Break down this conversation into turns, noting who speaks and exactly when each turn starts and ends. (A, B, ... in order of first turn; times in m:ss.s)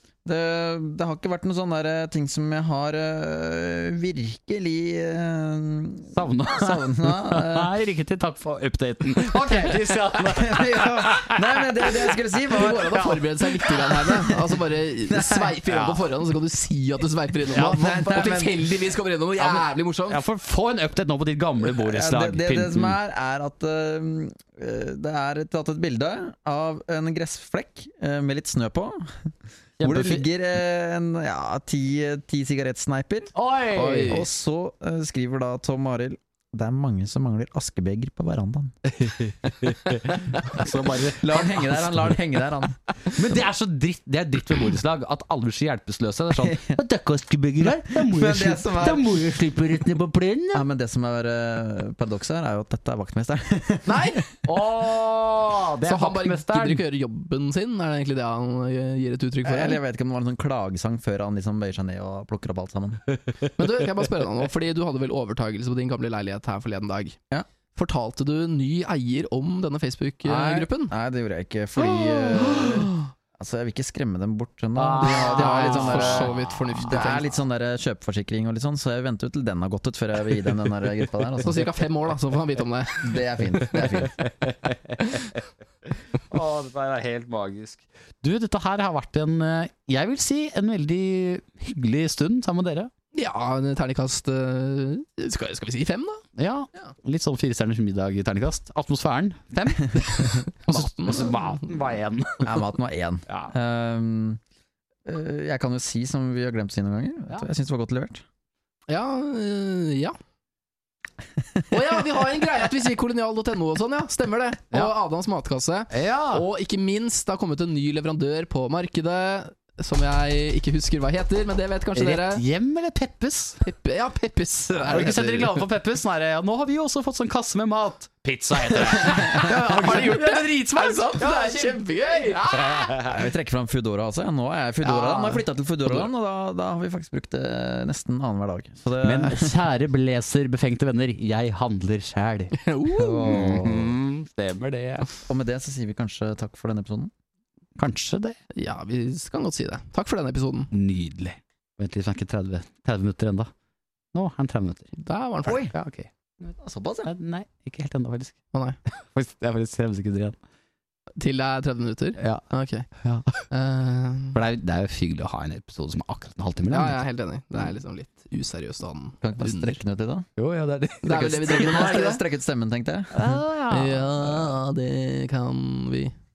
0:00.2-0:07.7 A
0:06.1-0:13.9 B
0:10.2-0:13.1 A
0:12.5-0:20.2 C
0:14.3-0:15.6 A
0:15.7-0:16.0 B
0:17.5-0:18.3 B
0:17.5-0:18.7 A
0:19.4-0:23.0 B
0:21.8-0:38.9 A
0:29.8-0:30.3 B
0:33.4-0:34.2 B
0:33.8-0:34.2 C
0:39.0-0:42.1 B
0:39.9-0:43.4 A
0:43.1-0:50.6 B
0:46.3-0:46.8 A
0:47.6-0:49.2 A
0:50.5-0:54.4 A
0:53.9-0:54.3 C
0:54.4-0:56.8 B
0:55.8-0:59.8 C
0:59.4-1:03.0 A
1:03.6-1:07.2 C
1:07.7-1:10.9 C
1:10.2-1:16.3 A
1:11.9-1:13.0 C
1:14.8-1:17.0 B
1:15.0-1:17.3 C
1:16.9-1:21.7 A
1:21.4-1:23.2 C
1:23.0-1:24.2 A
1:23.8-1:25.5 B
1:26.3-1:32.9 B
1:33.1-1:36.2 C
1:36.4-1:42.6 B
1:40.6-1:41.5 C
1:42.4-1:44.4 A
1:45.0-1:48.2 A
1:48.9-1:50.2 C
1:51.7-2:02.4 C
1:55.9-1:56.4 B
2:02.0-2:03.6 B
2:03.6-2:05.6 C
2:04.9-2:13.2 B
2:09.0-2:12.9 C
2:13.0-2:19.6 A
2:14.8-2:15.5 C
2:19.0-2:22.6 B
2:22.6-2:23.4 C
2:23.0-2:23.9 A
2:23.2-2:25.2 B
2:25.3-2:27.1 A
2:27.8-2:28.4 B
2:28.5-2:30.7 C
2:30.7-2:33.5 B
2:34.1-2:34.9 B
2:35.0-2:35.7 C
2:35.4-2:35.7 A
2:35.5-2:38.4 B
2:36.6-2:37.1 A
2:38.5-2:38.8 C
2:39.0-2:40.4 B
2:41.2-2:42.9 C
2:42.2-2:42.4 B
2:43.0-2:43.4 B
2:43.5-2:44.4 C
2:44.3-2:47.0 B
2:46.7-2:49.8 C
2:49.2-2:50.3 A
2:50.4-2:52.0 B
2:51.0-2:52.2 C
2:51.1-2:53.3 A
2:53.1-2:54.3 B
2:53.7-2:56.1 C